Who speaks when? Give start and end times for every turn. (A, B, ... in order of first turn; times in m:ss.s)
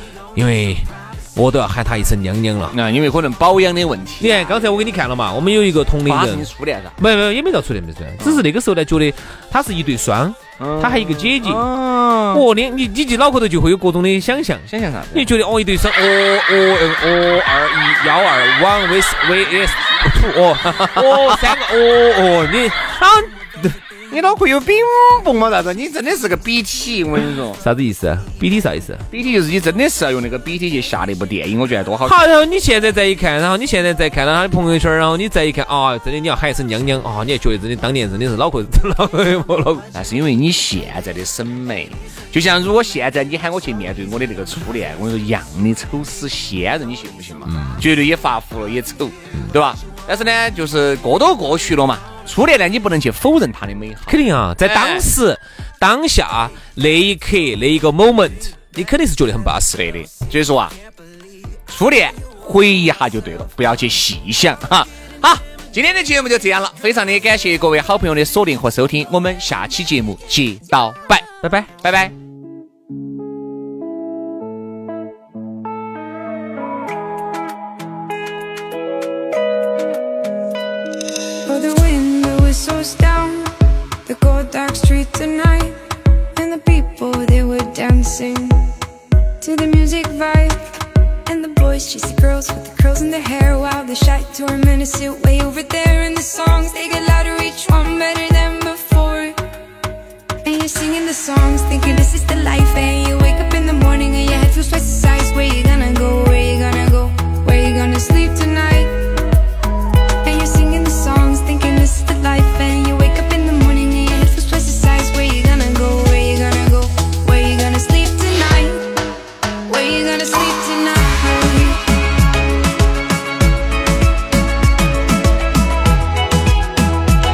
0:00.3-0:02.8 A
0:02.7-0:04.8 B
0:04.2-0:11.6 A
0:06.0-0:07.0 B
0:08.2-0:08.4 B
0:10.6-0:12.4 B
0:12.3-0:23.8 A
0:14.7-0:15.3 B
0:21.0-0:21.4 B
0:24.1-0:27.6 B
0:27.6-0:29.1 A
0:29.1-0:32.2 B
0:32.0-0:39.9 A
0:39.9-0:55.0 B
0:54.1-0:59.8 A
0:59.7-1:00.7 B
1:01.7-1:12.1 B
1:11.4-1:11.7 A
1:21.4-1:25.8 C
1:26.4-1:28.7 C
1:29.4-1:30.7 C
1:31.2-1:39.4 C
1:40.4-1:48.9 C
1:50.2-1:58.9 C
1:59.7-2:01.8 C